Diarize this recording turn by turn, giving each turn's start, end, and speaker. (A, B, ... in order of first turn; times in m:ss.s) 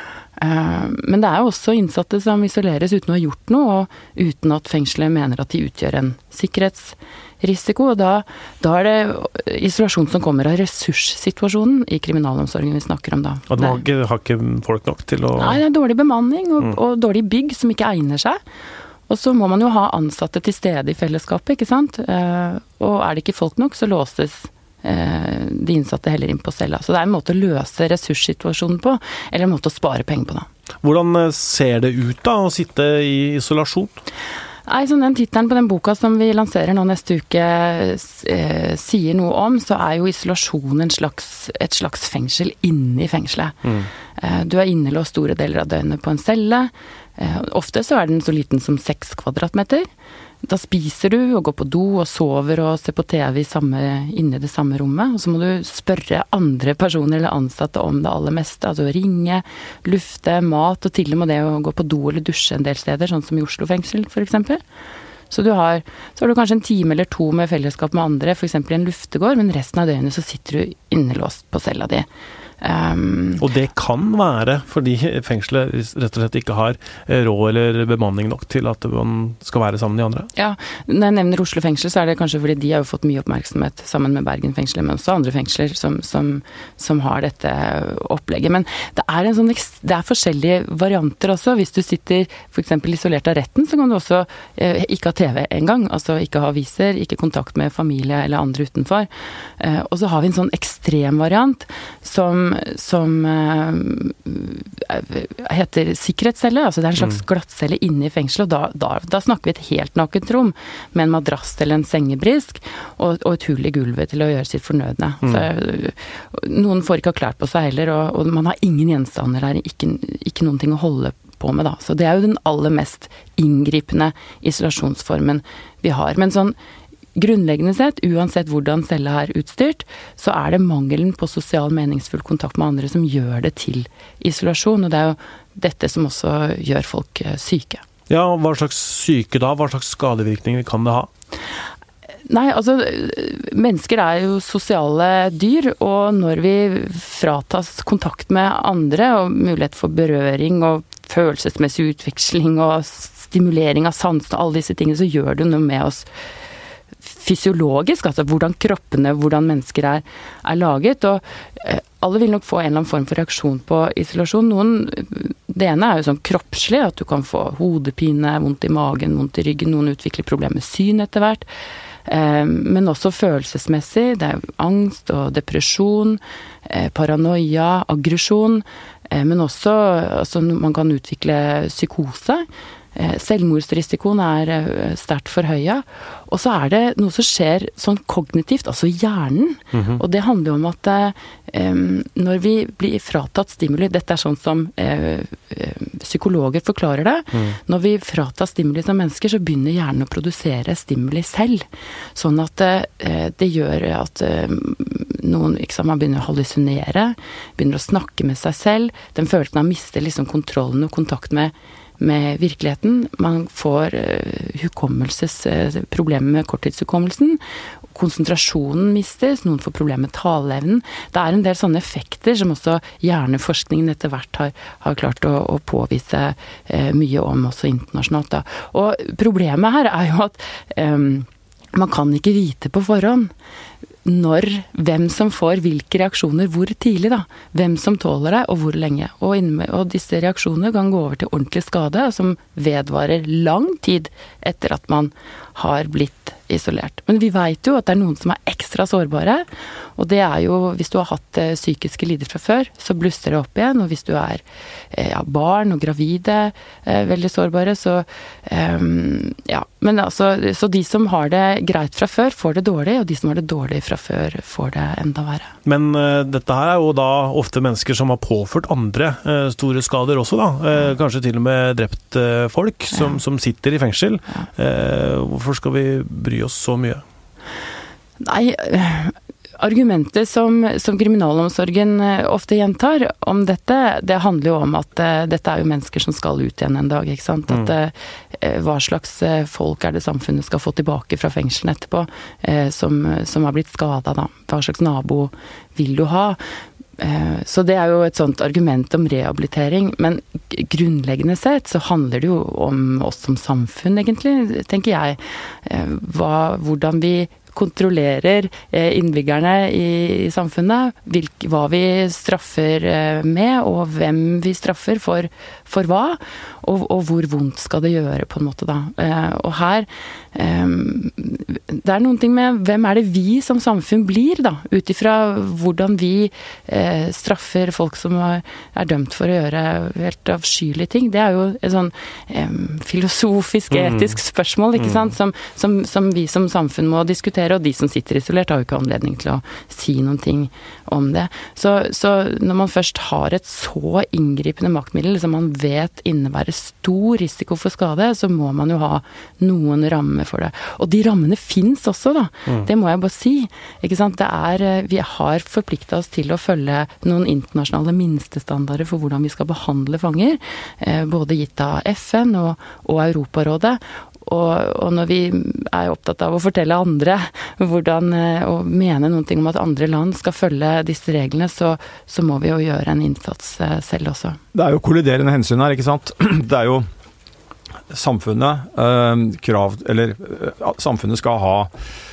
0:00.4-0:13.8 A
0:13.5-0:15.6 B
0:15.4-0:18.4 A
0:19.1-0:30.4 A
0:30.8-0:34.0 B
0:34.7-0:43.6 A
0:43.6-0:43.9 B
0:44.2-0:49.8 A
0:50.4-1:04.6 A
1:05.3-1:12.1 A
1:12.6-1:13.4 A
1:13.4-1:20.3 B
1:20.4-2:06.6 A
2:07.2-2:17.8 A
2:18.1-2:21.1 B
2:22.3-2:36.1 A
2:37.0-2:51.4 A
2:52.0-3:37.4 A
3:09.7-3:10.0 B
3:37.9-3:53.3 A
3:54.0-4:09.4 A
4:10.0-4:25.5 A
4:25.6-4:37.0 B
4:38.2-4:56.4 A
4:57.0-6:14.4 A
6:14.5-6:16.8 C
6:17.9-6:21.7 C